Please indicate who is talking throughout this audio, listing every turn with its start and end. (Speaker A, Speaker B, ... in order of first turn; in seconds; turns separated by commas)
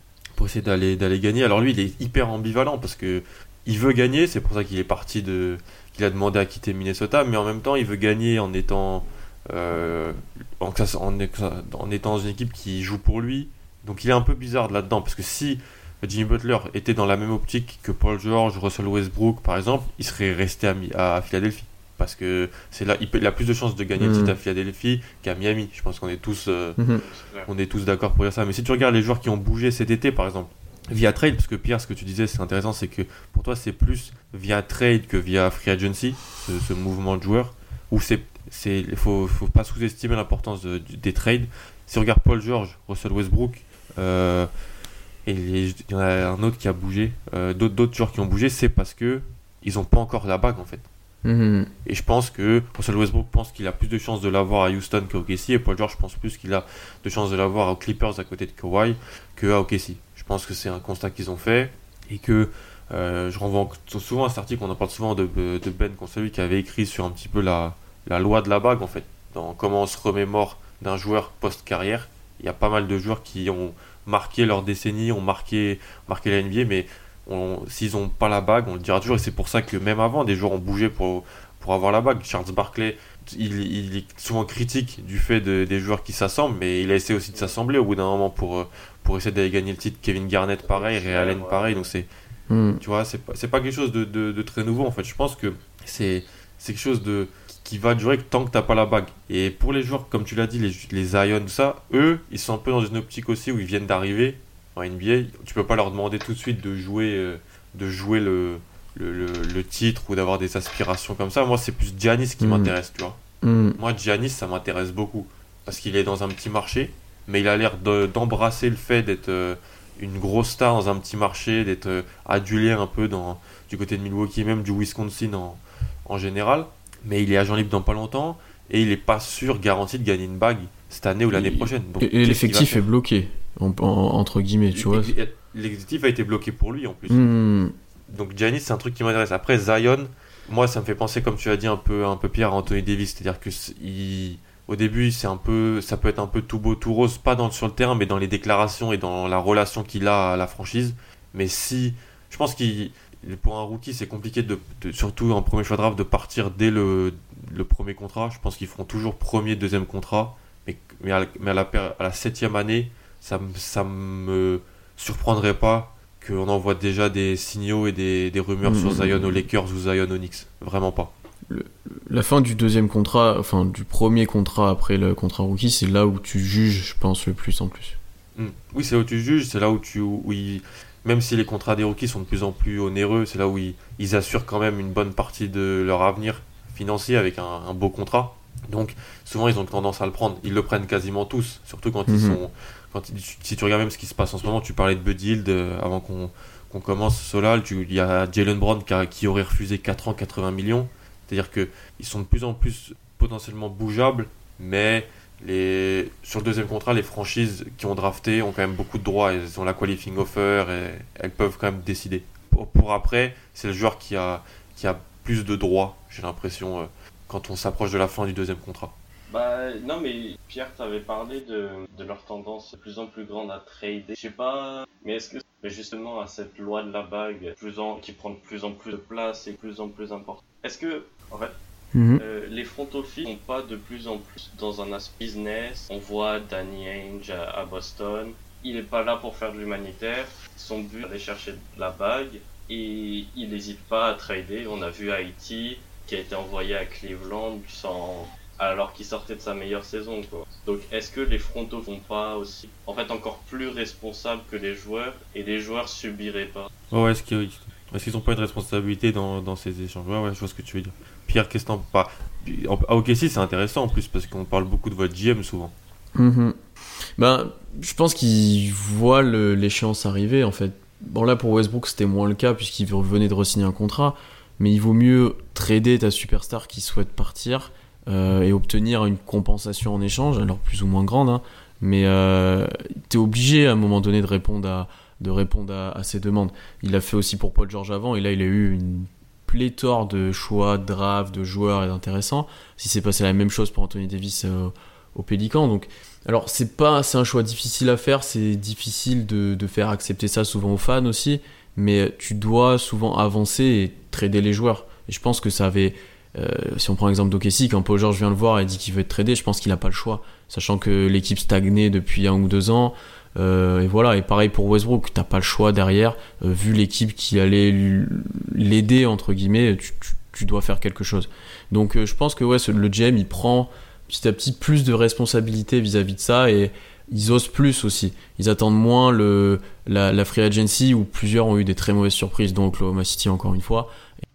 Speaker A: 0.3-26.8, Speaker B: 24.0-24.4, Speaker B: 26.8-27.0, Speaker C: 26.9-27.5, Speaker A: 27.5-44.5, Speaker A: 45.2-50.9, Speaker B: 51.2-51.7, Speaker A: 51.8-92.1, Speaker C: 90.6-91.9, Speaker B: 92.5-92.8, Speaker A: 92.8-113.2, Speaker B: 112.4-112.7, Speaker B: 113.4-113.8, Speaker A: 113.8-132.8, Speaker B: 131.3-135.1, Speaker A: 134.7-137.2, Speaker B: 137.1-137.7, Speaker A: 138.1-171.1, Speaker B: 168.6-169.4, Speaker B: 171.5-178.0, Speaker A: 178.3-218.9, Speaker B: 192.1-192.4, Speaker C: 219.3-231.5, Speaker B: 231.9-232.2, Speaker C: 232.2-256.7, Speaker A: 256.9-265.7, Speaker B: 266.1-266.6, Speaker B: 267.2-334.2